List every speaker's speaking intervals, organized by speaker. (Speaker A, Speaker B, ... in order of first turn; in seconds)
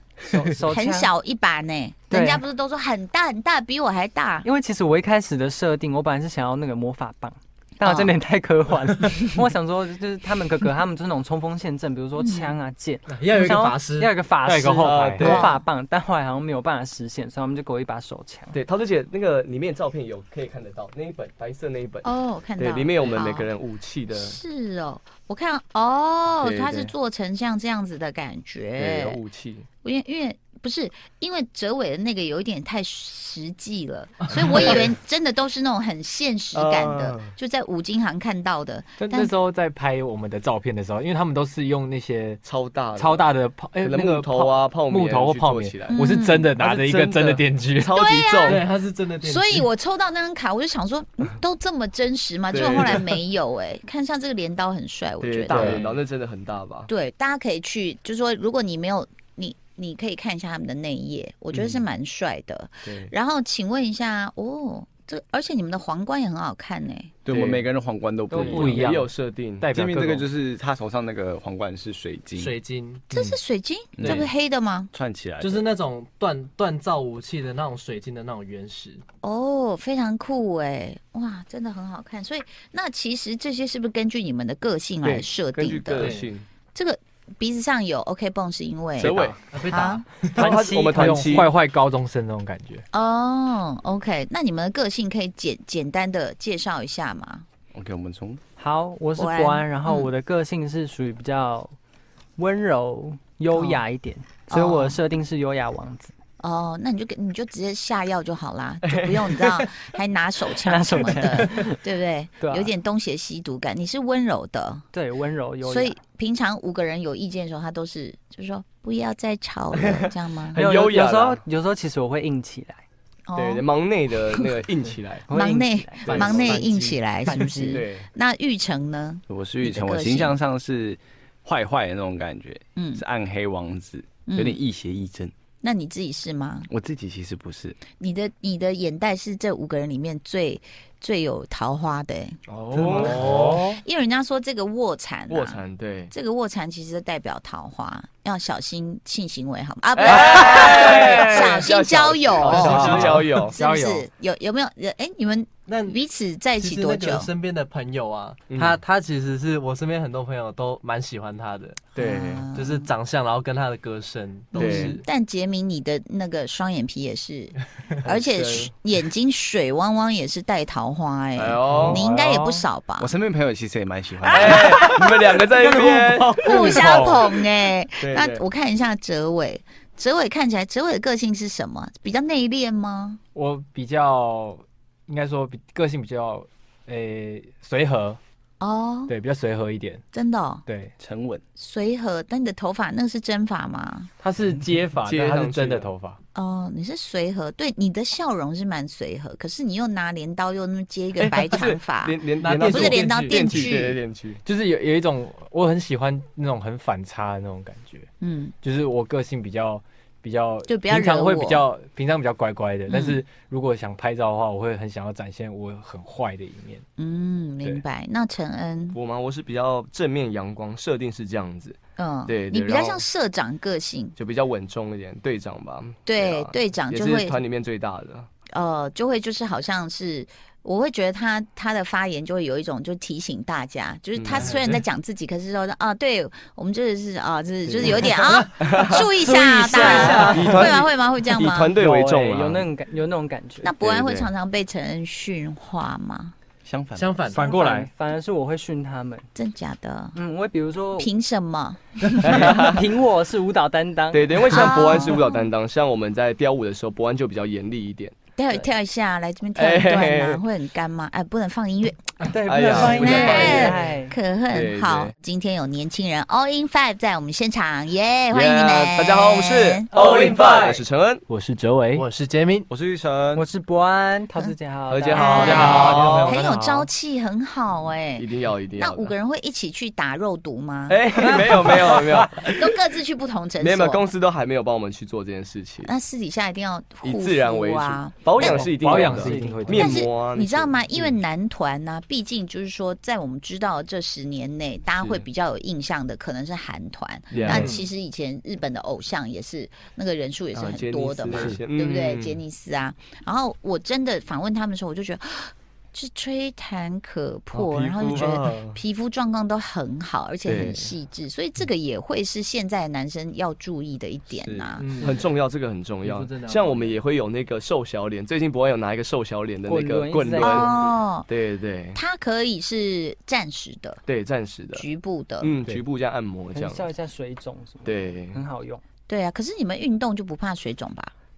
Speaker A: 0.2-1.1, 2.1-2.5, 4.4-18.6, 68.3-68.7, 90.5-91.0, 98.6-101.8, 102.4-106.1, 110.5-111.8, 112.4-112.7, 114.9-116.0, 120.5-122.8, 125.3-127.9, 239.2-240.6, 241.8-243.8, 247.3-249.3, 250.1-251.1, 252.5-255.2, 262.2-264.2, 269.9-270.8, 273.3-276.0, 281.2-282.2, 288.4-290.0, 316.0-317.0, 319.6-320.7, 326.5-328.8
Speaker B: 0.7-4.5, 7.8-8.1, 12.2-12.5, 15.2-15.7, 22.0-23.5, 24.1-29.2, 29.8-39.3, 45.9-46.5, 48.0-48.6, 49.2-55.8, 56.9-67.1, 73.1-74.9, 79.2-86.1, 86.7-90.0, 92.9-97.5, 99.2-100.1, 103.5-103.8, 104.5-105.0, 106.4-114.9, 115.6-120.6, 123.3-123.6, 125.3-130.4, 132.8-133.0, 134.3-134.6, 135.6-136.7, 137.9-142.4, 143.0-157.3, 162.0-162.9, 164.5-173.1, 176.4-183.2, 188.6-189.1, 190.1-190.7, 191.6-194.1, 196.3-204.0, 208.2-208.6, 210.7-211.7, 212.9-213.2, 217.0-219.0, 222.0-224.2, 226.1-227.4, 228.5-241.8, 243.6-246.3, 249.3-250.2, 251.0-252.6, 254.5-255.4, 258.4-262.1, 262.7-269.9, 275.1-281.0, 282.4-284.1, 285.8-289.2, 289.7-314.8, 320.4-321.3, 321.9-324.0, 324.8-325.5, 329.1-331.1
Speaker C: 13.1-14.2, 34.4-34.8, 48.5-49.7, 72.4-73.3, 74.0-74.3, 75.4-79.0, 86.0-86.3, 89.5-90.5, 142.9-143.6, 152.7-153.1, 155.7-156.0, 156.6-161.9, 162.5-165.0, 202.4-203.8, 234.3-234.8, 237.9-238.5, 239.7-240.8, 246.9-247.5, 262.2-263.5, 271.9-272.7, 297.4-297.9, 307.7-308.3, 314.8-315.2
Speaker D: 14.4-15.4, 39.0-42.4, 43.0-47.9, 55.5-55.9, 68.4-70.3, 90.4-92.8, 142.8-143.8, 150.4-151.6, 152.4-154.1, 171.7-172.7, 174.3-177.3, 183.3-188.2, 189.1-190.0, 190.7-190.9, 194.2-196.2, 204.4-208.1, 208.6-216.8, 247.3-247.9, 271.3-272.0, 275.4-276.9, 288.5-290.0
Speaker E: 14.8-15.5, 18.5-24.4, 26.4-26.9, 28.8-29.7, 34.3-34.9, 36.5-37.3, 42.4-43.3, 43.8-46.0, 46.6-48.6, 52.5-53.2, 55.2-56.9, 61.5-61.8, 62.8-63.1, 67.3-67.7, 68.5-70.2, 85.0-86.5, 89.0-89.4, 90.3-91.5, 108.8-109.7, 120.0-121.4, 123.4-125.3, 126.1-126.7, 127.6-128.1, 142.5-143.3, 145.3-146.1, 150.0-153.6, 158.5-158.8, 162.0-162.5, 164.5-165.0, 168.1-168.7, 171.4-172.1, 174.3-176.8, 178.0-178.4, 195.1-195.9, 201.3-204.4, 218.9-223.1, 224.2-228.3, 234.2-234.5, 237.7-239.1, 239.8-242.7, 243.8-244.3, 252.2-252.9, 254.1-258.1, 259.6-260.4, 262.4-263.9, 264.5-265.1, 268.3-271.2, 274.9-276.4, 278.2-279.1, 280.9-282.7, 283.6-285.9, 287.0-291.2, 295.0-295.2, 297.3-297.8, 300.5-302.4, 307.8-308.8, 310.5-310.9, 315.0-322.0, 324.1-324.9, 325.4-326.8, 327.9-328.4
Speaker F: 67.3-69.0, 69.7-72.5, 74.0-74.3, 74.9-75.7, 97.7-98.4, 129.3-135.3, 136.7-137.8, 173.0-174.6, 191.0-191.4, 246.7-247.2, 272.7-273.4, 314.4-314.8